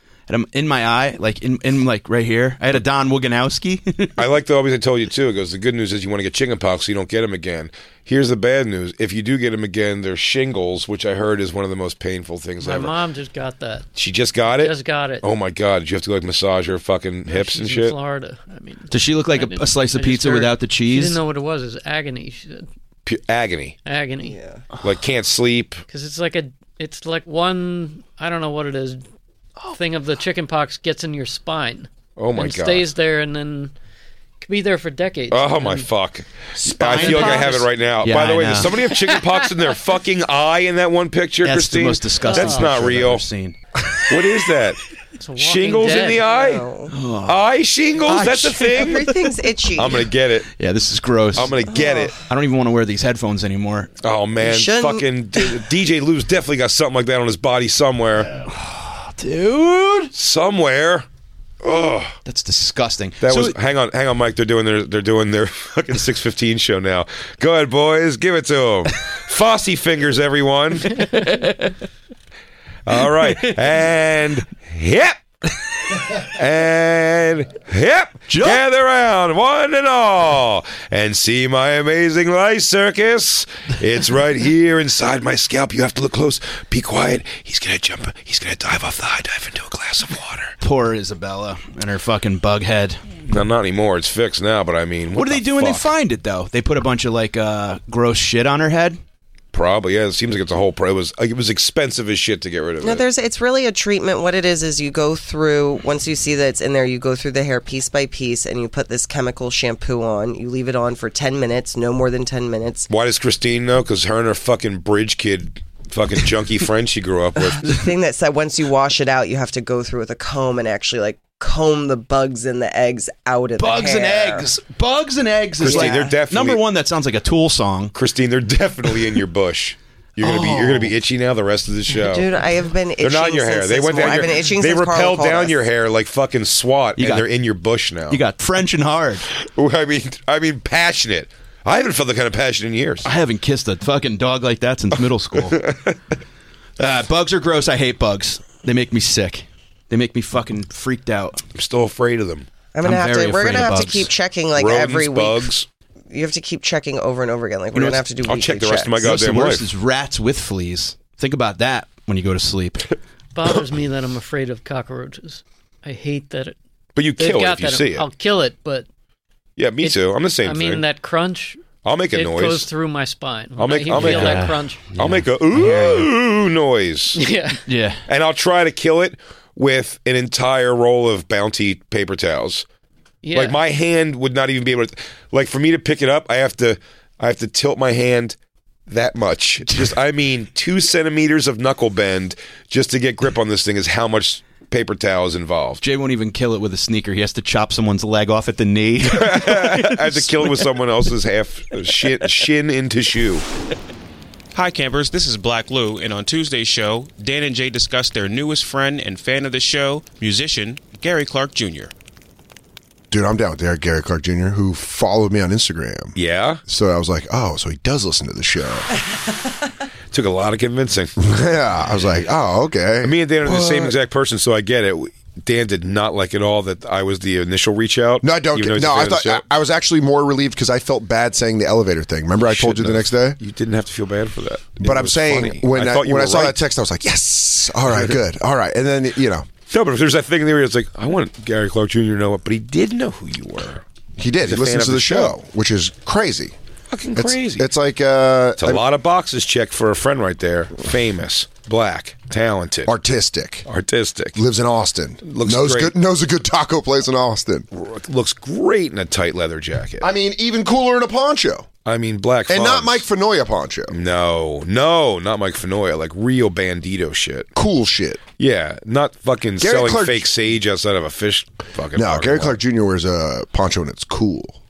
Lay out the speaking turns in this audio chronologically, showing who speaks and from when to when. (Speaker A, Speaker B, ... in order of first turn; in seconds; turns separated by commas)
Speaker A: 0.3-4.2, Speaker B: 4.2-12.9, Speaker C: 12.6-13.9, Speaker B: 13.9-18.0, Speaker C: 14.6-15.3, Speaker C: 17.3-22.7, Speaker A: 18.9-21.2, Speaker B: 23.1-23.8, Speaker C: 23.9-24.4, Speaker D: 24.4-24.6, Speaker B: 24.8-25.8, Speaker C: 25.9-29.0, Speaker C: 29.7-33.7, Speaker B: 32.2-32.9, Speaker C: 34.4-35.9, Speaker B: 35.3-43.2, Speaker A: 36.6-38.9, Speaker C: 37.0-37.4, Speaker A: 41.4-43.6, Speaker C: 42.3-42.6, Speaker B: 44.1-44.8, Speaker C: 45.2-46.3, Speaker B: 45.4-46.7, Speaker D: 46.2-46.9, Speaker A: 46.9-47.4, Speaker B: 47.2-49.1, Speaker A: 48.0-49.4, Speaker D: 48.7-50.1, Speaker B: 49.8-50.5, Speaker A: 50.6-51.6, Speaker B: 51.3-52.2, Speaker D: 51.7-52.1, Speaker A: 52.3-53.9, Speaker B: 54.0-58.3, Speaker D: 54.4-55.7, Speaker A: 58.3-60.1, Speaker B: 60.1-61.1, Speaker B: 61.6-62.1, Speaker A: 62.3-63.6, Speaker B: 63.2-71.1, Speaker B: 72.9-75.2, Speaker B: 76.1-90.5, Speaker A: 78.3-78.6, Speaker A: 90.6-93.0, Speaker B: 93.3-95.9, Speaker A: 95.2-99.0, Speaker B: 99.5-103.0, Speaker D: 102.8-112.9, Speaker B: 112.9-117.8, Speaker D: 117.6-124.5, Speaker A: 123.6-128.0, Speaker B: 125.6-126.6, Speaker D: 125.6-126.0, Speaker B: 128.0-132.3, Speaker A: 130.2-130.9, Speaker D: 131.9-135.6, Speaker B: 133.0-138.2, Speaker A: 137.0-137.2, Speaker A: 138.1-139.3, Speaker B: 139.4-143.1, Speaker A: 143.0-145.6, Speaker B: 145.5-146.0, Speaker A: 146.8-151.4, Speaker B: 151.6-152.5, Speaker D: 152.7-155.5, Speaker A: 152.8-154.1, Speaker B: 154.6-155.7, Speaker D: 156.1-159.1, Speaker A: 157.7-158.0, Speaker B: 158.2-159.6, Speaker A: 159.0-162.9, Speaker C: 163.3-166.6, Speaker B: 167.0-168.1, Speaker C: 167.2-168.9, Speaker B: 169.6-170.8, Speaker C: 169.8-174.8, Speaker B: 171.8-172.7, Speaker B: 173.6-177.2, Speaker A: 173.9-176.1, Speaker C: 177.2-177.6, Speaker A: 177.7-178.0, Speaker B: 178.1-182.7, Speaker C: 183.2-183.6, Speaker B: 183.3-188.4, Speaker B: 188.9-195.8, Speaker A: 195.8-200.6, Speaker B: 199.0-203.5, Speaker E: 204.5-211.9, Speaker F: 213.1-216.2, Speaker B: 216.2-216.6, Speaker F: 216.7-218.9, Speaker B: 220.1-221.1, Speaker F: 221.2-223.9, Speaker B: 223.0-229.4, Speaker F: 228.2-233.4, Speaker B: 232.4-236.6, Speaker F: 234.8-239.5, Speaker B: 239.7-243.8, Speaker F: 244.2-246.5, Speaker B: 244.4-245.3, Speaker B: 246.9-247.7, Speaker F: 247.2-248.8, Speaker B: 248.6-252.9, Speaker F: 252.9-253.7, Speaker B: 253.7-254.4, Speaker F: 254.3-257.7, Speaker B: 255.2-255.9, Speaker B: 257.7-260.1, Speaker F: 260.0-261.7, Speaker B: 261.9-263.0, Speaker F: 262.5-263.9, Speaker B: 263.9-267.5, Speaker F: 267.6-268.2, Speaker B: 268.4-272.5, Speaker F: 269.6-270.3, Speaker F: 271.9-274.6